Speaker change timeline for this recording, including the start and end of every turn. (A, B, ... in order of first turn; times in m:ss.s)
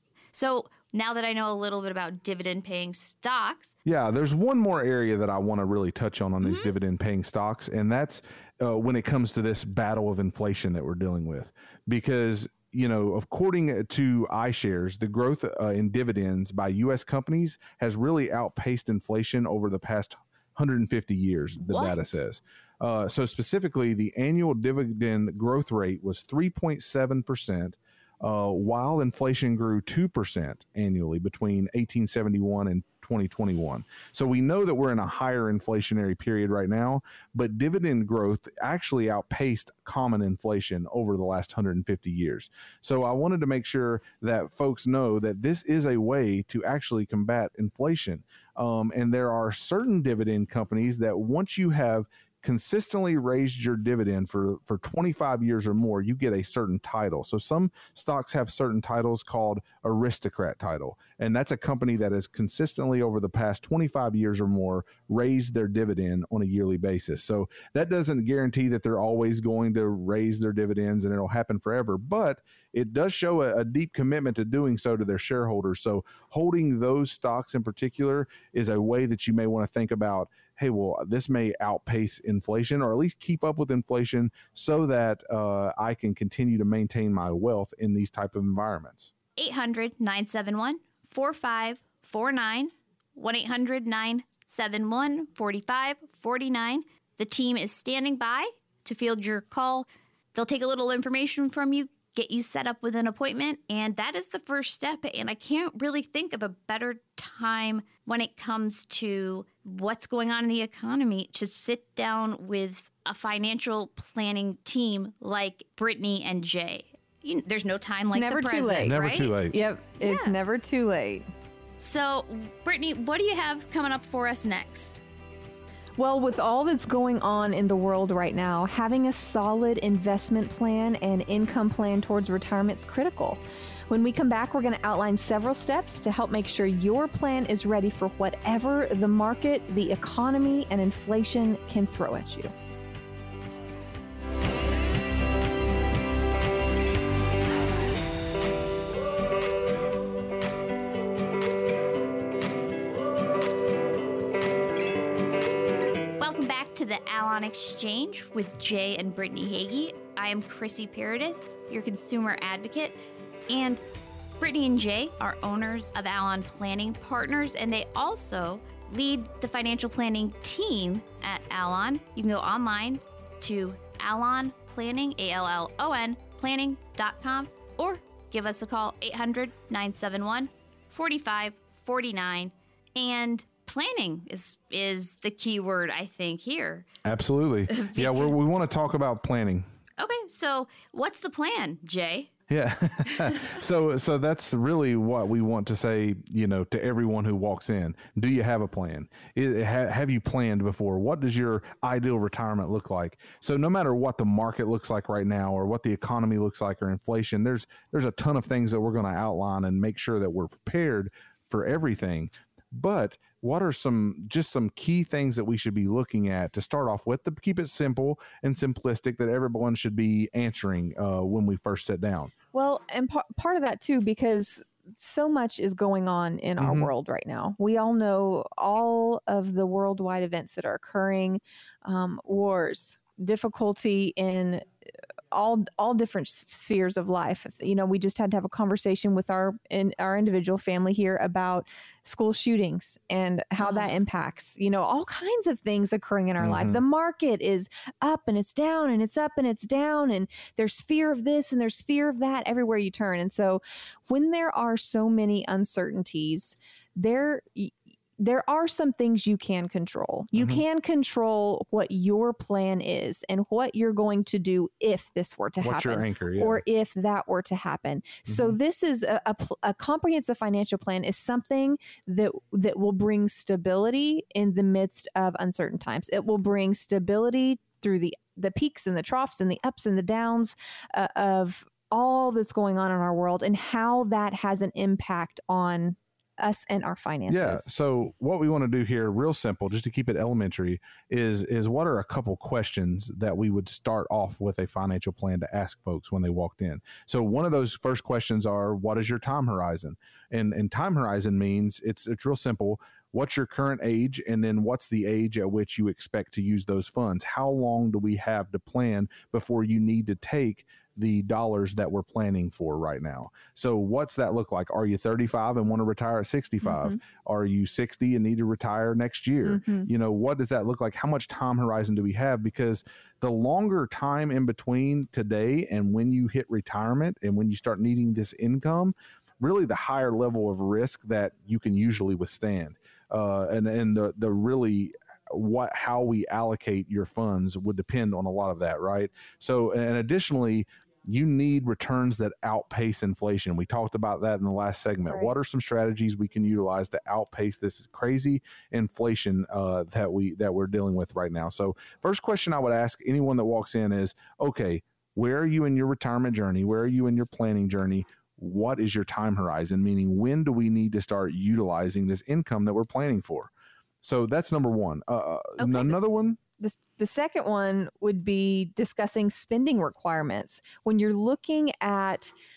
0:00.3-0:03.7 A
0:03.8-1:29.1 B
0:06.4-0:06.7 A
0:21.6-0:22.2 A
1:29.4-1:59.5 A
1:58.1-2:01.3 C
1:58.8-1:59.6 B
2:00.0-2:00.4 A
2:01.8-2:05.0 A
2:06.0-2:22.5 C
2:36.2-2:43.0 A
2:43.5-2:43.8 A
2:44.4-3:06.8 A
3:07.0-3:09.7 B
3:07.7-3:08.4 A
3:10.0-3:12.3 A
3:12.5-3:42.3 B
3:13.1-3:13.4 A
3:42.5-3:54.7 C
3:46.6-3:46.9 B
3:55.3-4:47.7 C
4:03.6-4:03.9 A
4:06.4-4:06.8 B
4:20.3-4:20.6 B
4:25.6-4:26.6 B
4:28.3-4:28.6 B
4:47.3-6:03.5 B
5:16.6-5:17.0 C
5:19.4-5:19.9 C
5:45.1-5:45.3 C
6:04.0-6:06.4 B
6:05.6-6:06.0 A
6:06.6-6:12.3 C